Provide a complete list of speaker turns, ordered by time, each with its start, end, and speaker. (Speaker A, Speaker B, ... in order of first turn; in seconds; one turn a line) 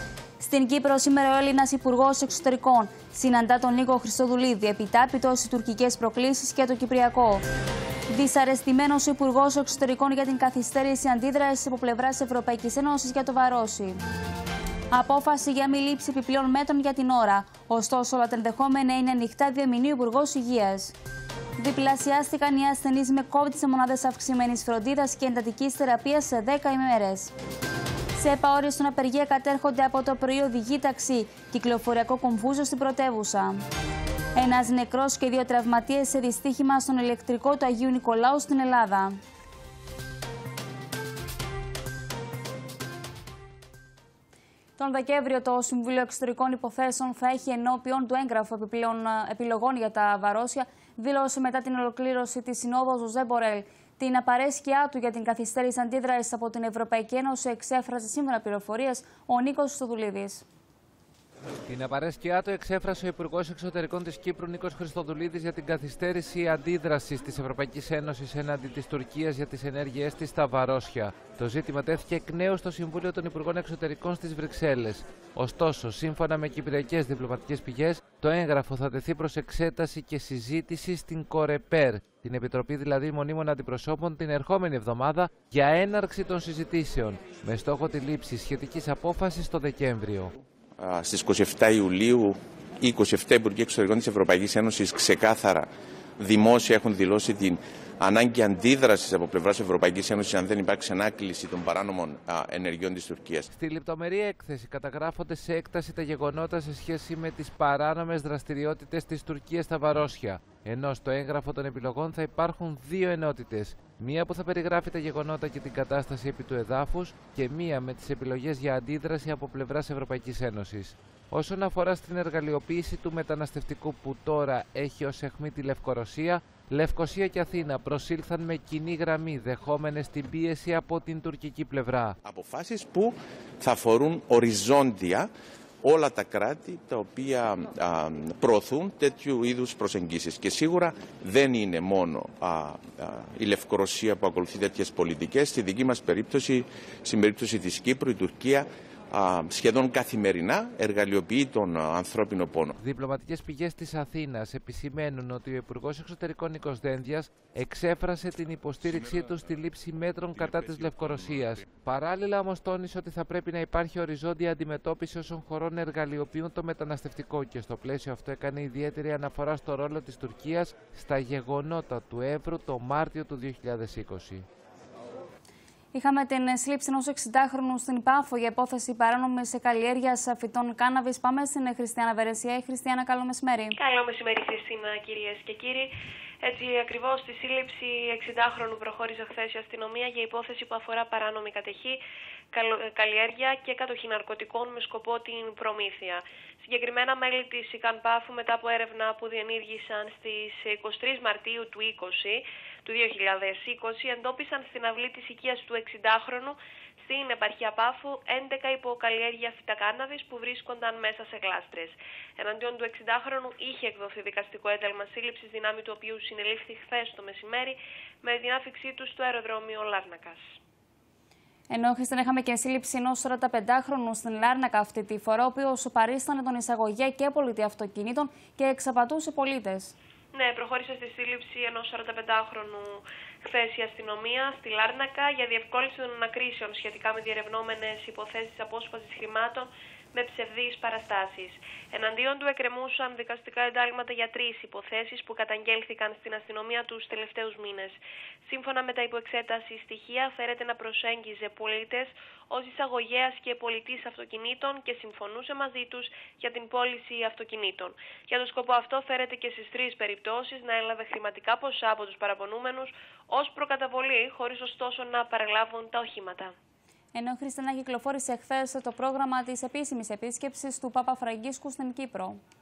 Speaker A: 0.4-7.4
Speaker A: 8.1-14.0
Speaker A: 14.9-20.9
Speaker A: 21.6-27.3
Speaker A: 28.2-33.6
Speaker A: 34.4-39.1
Speaker A: 44.8-60.5
Speaker B: 61.7-90.3
Speaker C: 90.8-103.5
Speaker B: 103.5-132.2
Speaker C: 132.2-135.3
Speaker C: 135.8-152.8
Speaker B: 152.8-174.5
Speaker A: 175.9-183.8
Speaker D: 183.8-185.9
Speaker D: 186.4-192.0
Speaker D: 192.5-220.6
Speaker A: 221.7-229.9
Speaker D: 230.3-266.5
Speaker A: 267.1-272.4